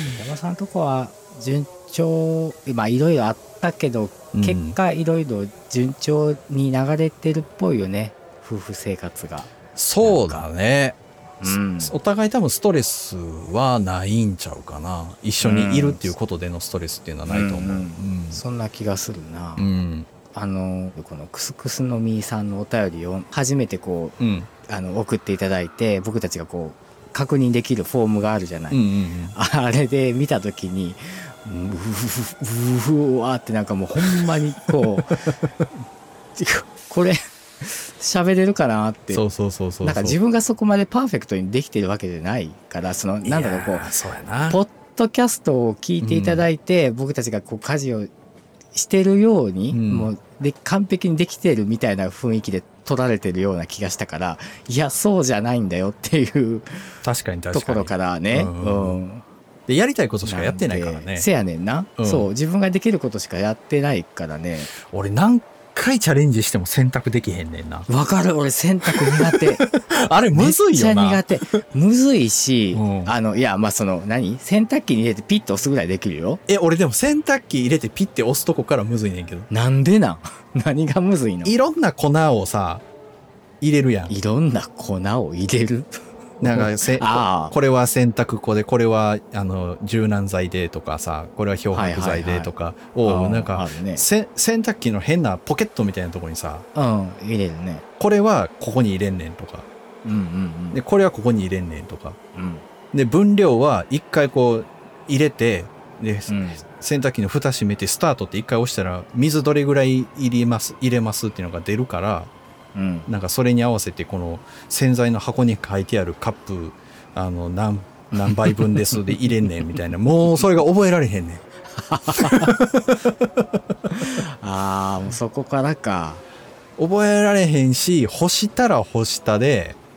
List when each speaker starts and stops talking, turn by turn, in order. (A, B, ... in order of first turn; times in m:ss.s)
0:00.1-0:10.5 A
0:04.3-0:04.8 B
0:09.8-0:18.4 B
0:11.4-0:12.0 A
0:15.4-0:16.1 A
0:17.3-0:19.7 A
0:19.6-0:20.1 B
0:20.3-0:35.3 A
0:24.2-0:24.5 B
0:28.7-0:29.4 B
0:35.0-0:35.4 B
0:36.4-0:39.2 A
0:39.1-0:40.2 B
0:39.8-0:43.9 A
0:43.2-0:44.6 B
0:44.5-0:48.1 A
0:46.0-0:46.5 B
0:48.7-0:56.9 A
0:49.7-0:50.1 B
0:57.0-0:59.0 B
0:57.5-0:59.2 A
0:59.7-1:01.3 B
1:00.2-1:04.7 A
1:02.0-1:02.3 B
1:04.8-1:07.9 B
1:07.9-1:09.7 A
1:08.9-1:11.3 B
1:10.3-1:16.4 A
1:12.7-1:13.2 B
1:16.5-1:19.5 B
1:19.5-1:21.5 A
1:21.4-1:22.8 B
1:23.6-1:24.1 B
1:24.1-1:27.6 A
1:26.4-1:36.7 B
1:31.7-1:34.1 A
1:36.7-1:37.8 A
1:38.0-1:39.7 B
1:40.0-1:40.8 A
1:40.7-1:42.2 B
1:42.3-1:42.6 A
1:42.9-1:52.3 B
1:46.3-1:46.6 A
1:52.7-1:53.1 A
1:53.1-2:01.4 B
1:58.1-1:59.7 A
2:01.8-2:02.6 A
2:02.2-2:03.5 B
2:03.9-2:06.2 A
2:06.8-2:09.8 B